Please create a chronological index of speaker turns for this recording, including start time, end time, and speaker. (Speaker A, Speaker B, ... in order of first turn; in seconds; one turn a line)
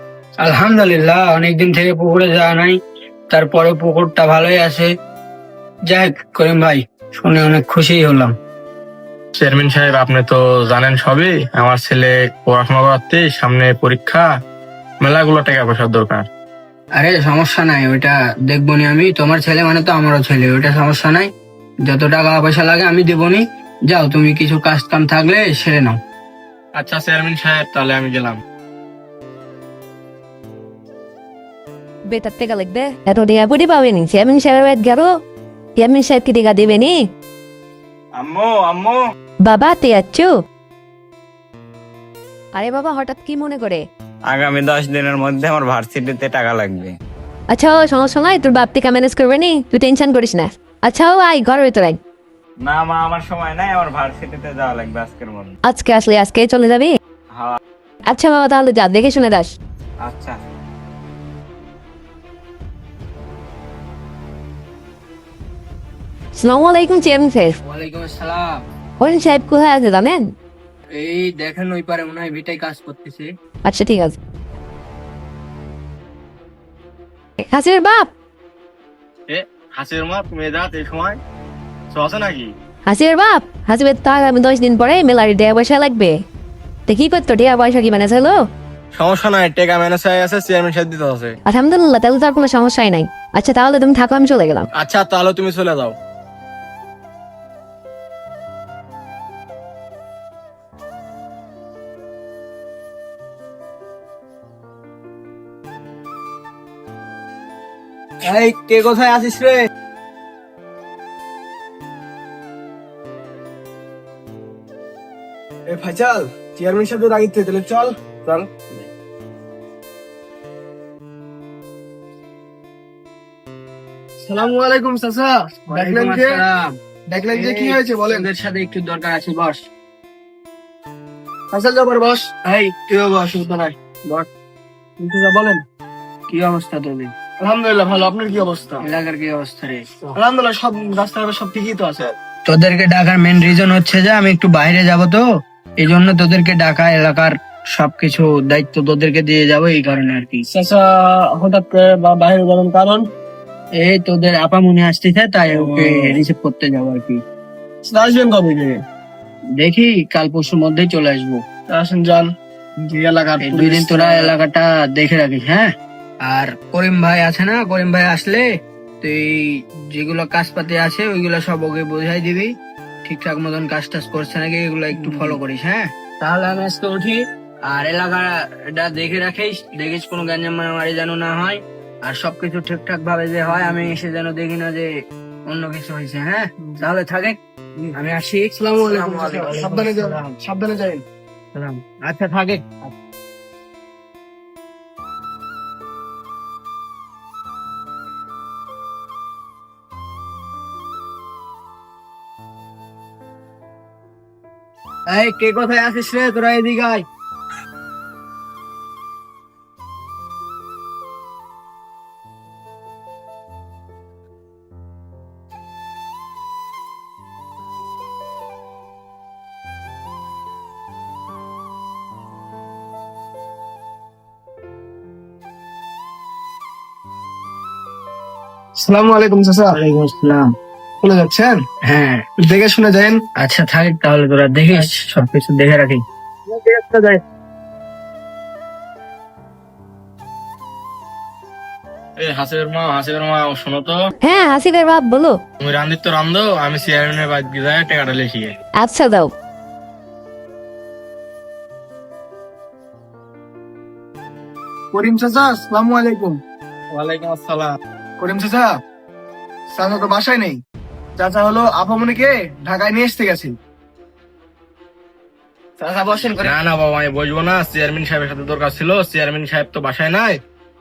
Speaker A: 0.4-2.8
Speaker A: 3.3-4.9
Speaker A: 5.8-8.4
Speaker B: 9.4-14.3
Speaker B: 15.0-16.3
Speaker A: 16.9-21.3
Speaker A: 21.8-26.0
Speaker B: 26.8-28.4
Speaker C: 32.1-35.1
Speaker C: 35.8-37.0
Speaker D: 38.2-39.0
Speaker C: 39.5-40.3
Speaker C: 42.5-43.8
Speaker D: 44.3-47.0
Speaker C: 47.5-52.0
Speaker D: 52.6-55.5
Speaker C: 55.7-57.0
Speaker C: 58.1-59.5
Speaker D: 60.0-60.4
Speaker C: 66.3-67.5
Speaker A: 67.7-68.6
Speaker C: 69.0-70.2
Speaker A: 70.9-73.3
Speaker C: 73.7-74.2
Speaker C: 77.5-78.1
Speaker B: 79.3-81.2
Speaker B: 81.9-82.5
Speaker C: 82.9-86.2
Speaker C: 86.9-88.4
Speaker B: 88.9-91.4
Speaker C: 91.5-94.7
Speaker B: 94.8-96.0
Speaker A: 108.2-109.7
Speaker E: 115.7-118.5
Speaker E: 124.2-126.4
Speaker A: 125.7-129.7
Speaker E: 127.1-128.3
Speaker E: 131.5-132.3
Speaker A: 132.4-134.3
Speaker E: 135.0-135.6
Speaker A: 136.3-137.1
Speaker E: 137.4-138.9
Speaker A: 138.8-140.1
Speaker E: 140.2-142.1
Speaker A: 142.5-145.3
Speaker A: 145.8-150.4
Speaker E: 150.5-153.1
Speaker A: 153.8-157.2
Speaker E: 155.5-155.9
Speaker E: 157.8-158.8
Speaker A: 159.6-161.5
Speaker E: 161.7-164.3
Speaker A: 163.4-165.7
Speaker A: 166.2-168.5
Speaker A: 169.0-184.9
Speaker E: 174.9-175.4
Speaker A: 185.4-187.4
Speaker A: 187.9-190.3
Speaker E: 188.5-191.0
Speaker A: 191.6-192.9
Speaker A: 205.1-207.1
Speaker E: 228.8-229.8
Speaker A: 229.7-230.5
Speaker E: 231.0-231.6
Speaker A: 231.8-232.2
Speaker E: 232.5-233.2
Speaker A: 233.4-236.0
Speaker E: 236.5-237.2
Speaker B: 242.2-244.0
Speaker C: 244.2-245.4
Speaker B: 245.6-248.5
Speaker C: 248.8-249.3
Speaker E: 254.9-256.4
Speaker B: 256.9-257.8
Speaker E: 258.2-258.7
Speaker E: 259.7-260.6
Speaker E: 261.2-263.6
Speaker E: 265.8-266.6
Speaker B: 266.4-270.4